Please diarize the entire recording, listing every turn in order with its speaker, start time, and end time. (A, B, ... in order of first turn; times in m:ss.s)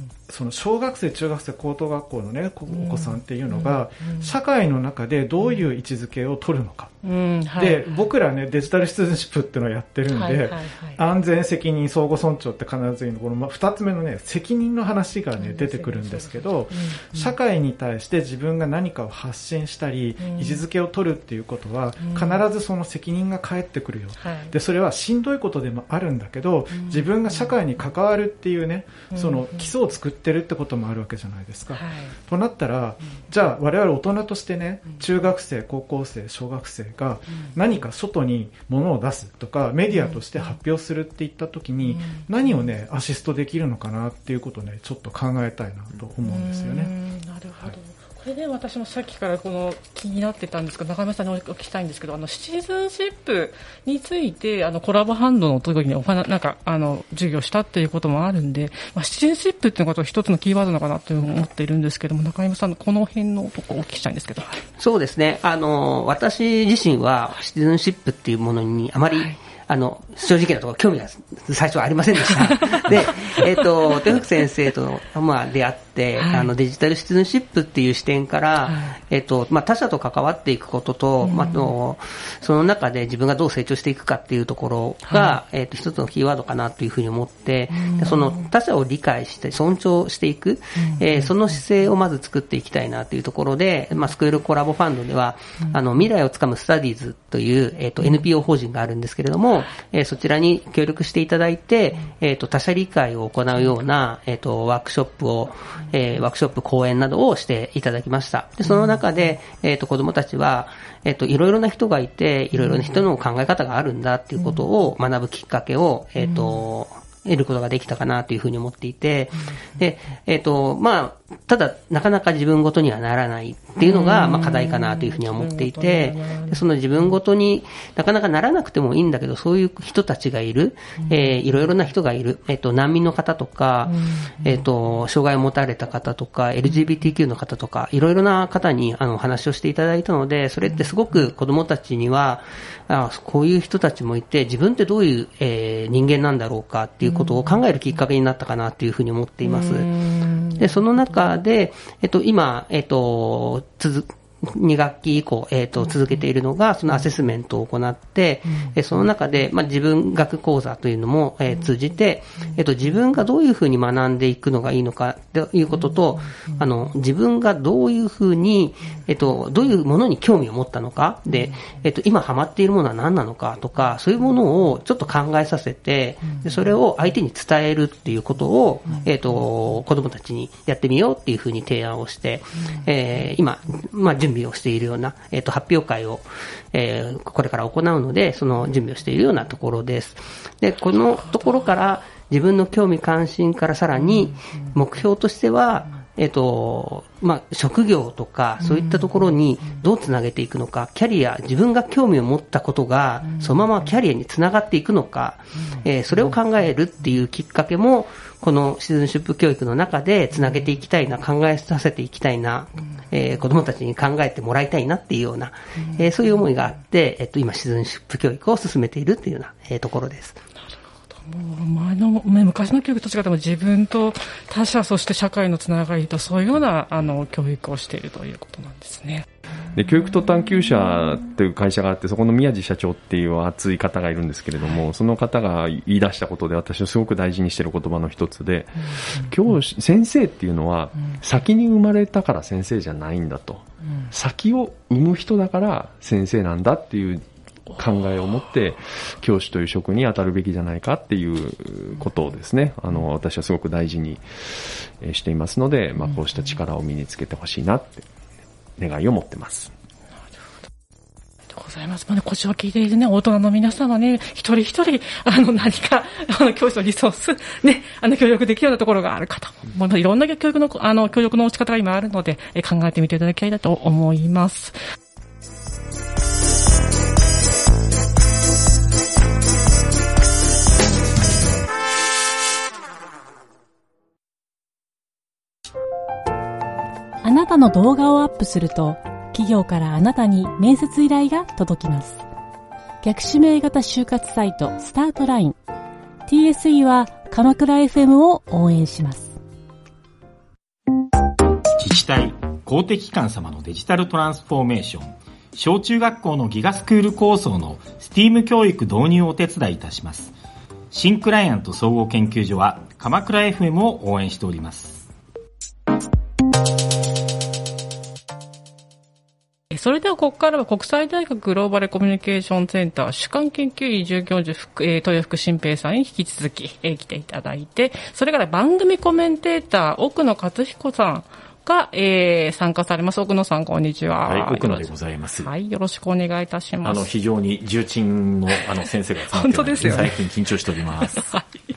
0:00.3-0:07.0 A
0:02.7-0:04.3 B
0:07.0-0:07.9 B
0:07.6-0:46.9 A
0:10.1-0:11.0 B
0:15.4-0:17.3 B
0:20.2-0:20.6 B
0:22.0-0:22.4 B
0:24.2-0:24.5 B
0:26.7-0:27.5 B
0:29.1-0:29.7 B
0:31.7-0:32.2 B
0:40.0-0:40.6 B
0:41.9-0:42.7 B
0:46.2-1:04.6 B
1:04.8-2:29.9 C
1:16.2-1:16.5 B
1:18.6-1:19.0 B
1:21.2-1:21.7 B
1:25.1-1:25.4 B
1:27.7-1:28.5 B
1:30.8-1:31.6 B
1:48.6-1:49.0 B
1:52.6-1:53.0 B
1:54.4-1:54.7 B
1:56.2-1:56.7 B
2:03.8-2:07.1 B
2:11.0-2:11.4 B
2:13.8-2:14.7 B
2:20.6-2:20.9 B
2:27.0-2:27.6 B
2:29.4-2:31.3 B
2:30.6-3:40.4 C
2:38.5-2:38.8 B
2:51.3-2:51.6 B
2:56.2-2:56.7 B
3:11.0-3:11.6 B
3:18.6-3:19.3 B
3:23.2-3:23.6 B
3:35.8-3:36.1 B
3:40.7-3:49.3 B
3:49.7-4:07.2 D
4:07.8-4:18.1 D
4:18.8-4:19.7 D
4:21.5-4:34.8 B
4:47.2-4:52.2 E
4:53.0-4:55.6 E
4:56.3-4:59.4 E
5:01.8-5:10.4 F
5:10.9-5:15.1 F
5:19.7-5:37.1 B
5:34.3-5:35.5 G
5:36.8-5:41.3 G
5:39.3-5:40.1 B
5:41.2-5:41.4 B